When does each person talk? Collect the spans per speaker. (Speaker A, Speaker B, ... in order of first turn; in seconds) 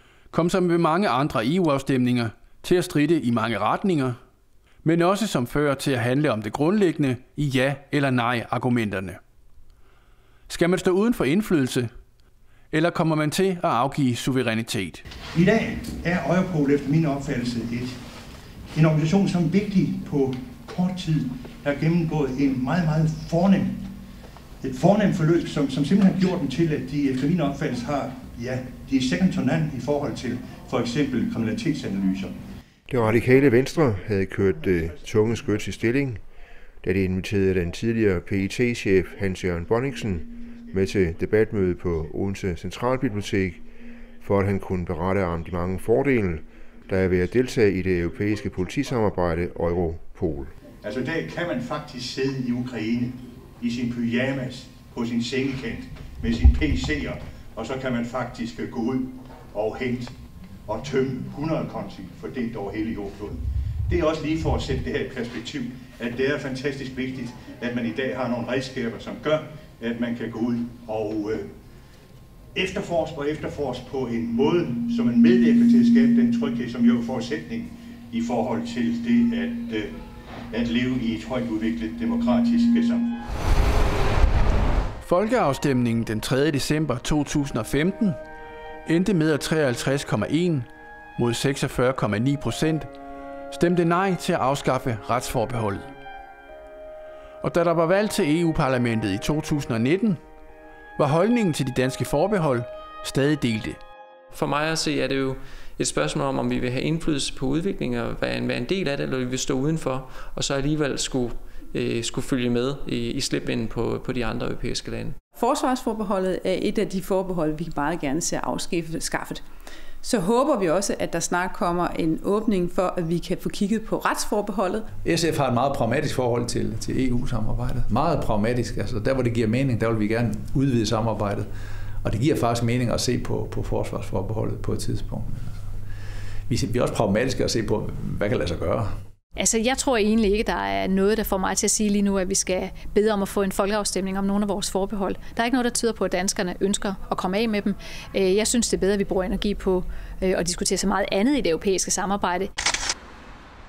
Speaker A: 0.3-4.2, 4.8-9.2, 10.5-11.9, 12.7-15.0, 85.0-88.2, 88.8-92.9, 93.5-95.9, 97.4-100.2, 101.0-103.8
Speaker B: 15.3-18.0, 18.7-23.8, 24.6-32.4, 50.8-60.1, 60.6-71.5, 72.5-79.9, 80.5-83.2
Speaker C: 32.9-36.2, 36.8-43.6, 44.2-50.5
Speaker D: 104.3-115.2
Speaker E: 115.3-119.4, 120.0-124.9
Speaker F: 125.0-131.5, 132.0-135.7, 136.5-138.9
Speaker G: 139.4-152.5